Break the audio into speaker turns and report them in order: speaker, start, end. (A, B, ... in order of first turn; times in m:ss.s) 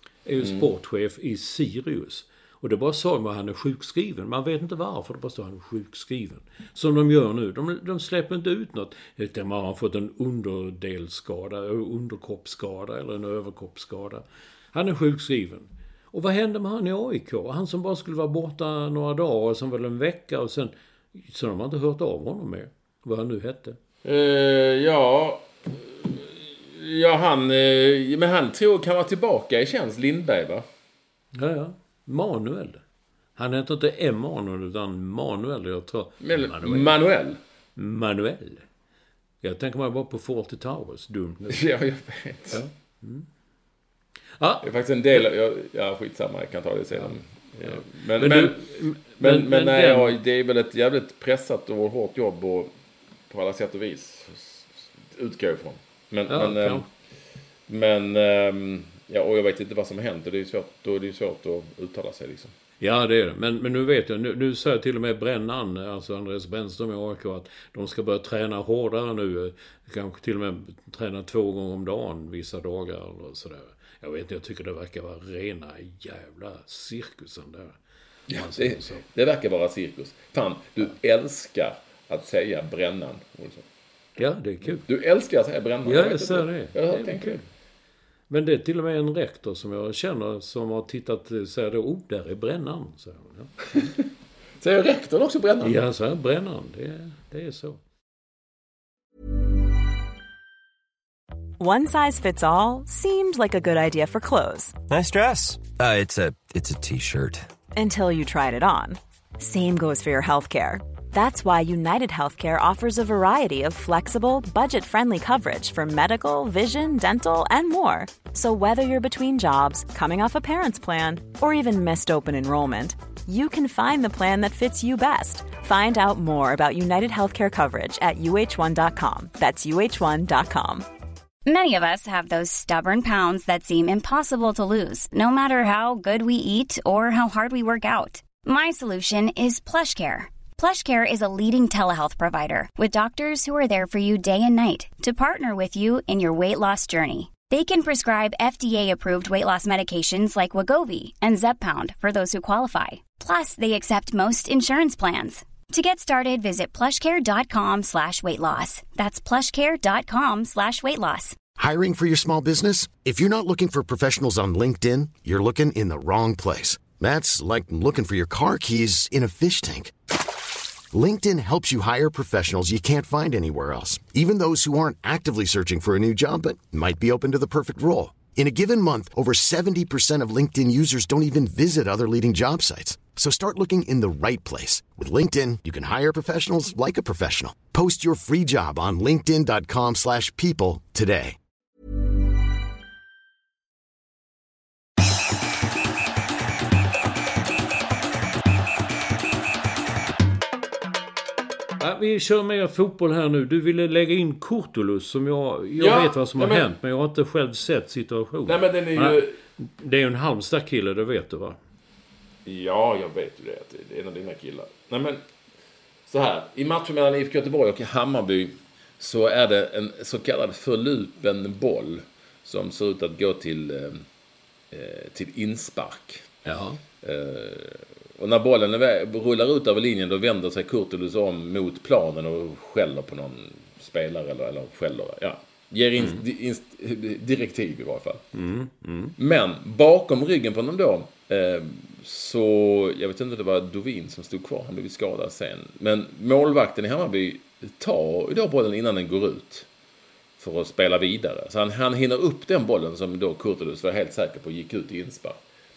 0:00.2-0:23.8 A
0:00.4-0:00.7 B
0:24.0-0:30.6 B
0:31.3-0:32.8 A
0:33.4-0:37.0 A
0:36.2-0:37.4 B
0:37.8-0:38.6 A
0:39.4-0:41.6 A
0:41.5-0:42.6 B
0:42.5-0:43.3 A
0:44.4-0:45.2 A
0:44.6-0:52.7 B
0:47.0-0:50.2 A
0:53.3-0:56.8 B
0:56.3-0:56.9 A
0:57.7-1:02.5 B
1:02.8-1:17.8 A
1:18.3-1:19.0 A
1:18.3-1:23.6 B
1:24.2-1:24.8 A
1:24.8-1:27.4 B
1:25.8-1:27.4 A
1:28.3-1:33.8 A
1:34.6-1:35.8 B
1:35.6-1:37.8 A
1:41.6-1:44.8 C
1:44.9-1:47.5 D
1:47.7-2:10.8 C
2:11.4-2:41.4 E
2:41.6-2:49.9 F
2:50.9-3:11.4 F
3:21.8-3:31.6 A
3:25.8-3:26.7 B
3:28.4-3:29.4 B
3:32.4-3:35.2 B
3:36.1-3:44.0 B
3:44.7-3:46.2 B
3:46.4-3:46.8 A
3:47.0-3:58.2 B
3:56.0-3:56.2 A
3:58.3-3:59.1 A
3:59.2-4:09.7 B
4:10.4-4:15.4 B